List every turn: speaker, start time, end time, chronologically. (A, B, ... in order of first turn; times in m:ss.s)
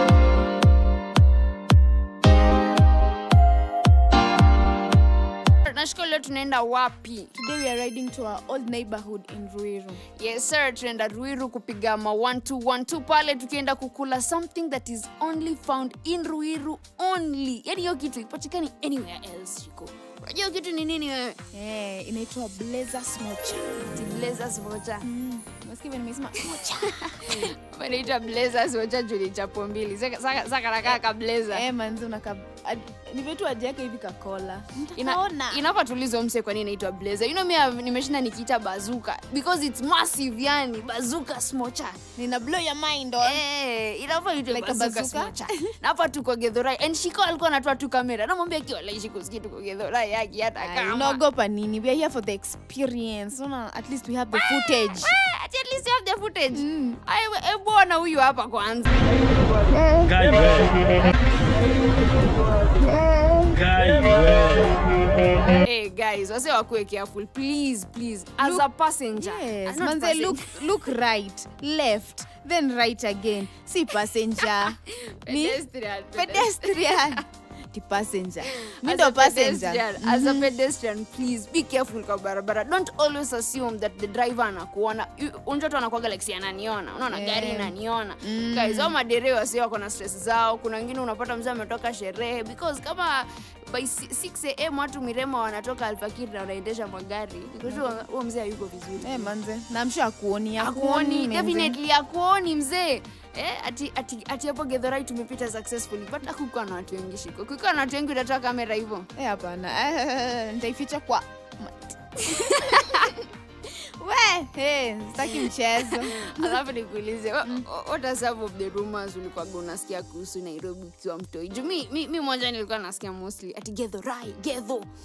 0:05.6-0:07.3 A
0:07.4-0:10.0 B
0:10.2-0:21.4 A
0:21.5-0:24.0 B
0:23.9-0:25.0 A
0:25.0-0:27.5 B
0:26.6-0:31.6 A
0:30.8-0:35.6 B
0:35.0-0:42.0 A
0:42.2-0:43.4 B
0:43.2-0:51.2 A
0:44.5-0:45.7 B
0:50.6-0:55.1 B
0:54.3-0:59.7 A
0:56.5-0:57.0 B
0:59.7-1:00.4 B
1:03.0-1:04.0 B
1:05.5-1:10.6 A
1:09.2-1:15.6 B
1:14.8-1:17.2 A
1:16.1-1:20.5 B
1:18.5-1:39.3 A
1:27.1-1:28.9 B
1:37.6-1:38.0 B
1:39.0-1:41.8 B
1:40.6-1:49.1 A
1:49.2-1:56.6 B
1:52.3-1:53.2 A
1:55.2-2:04.9 A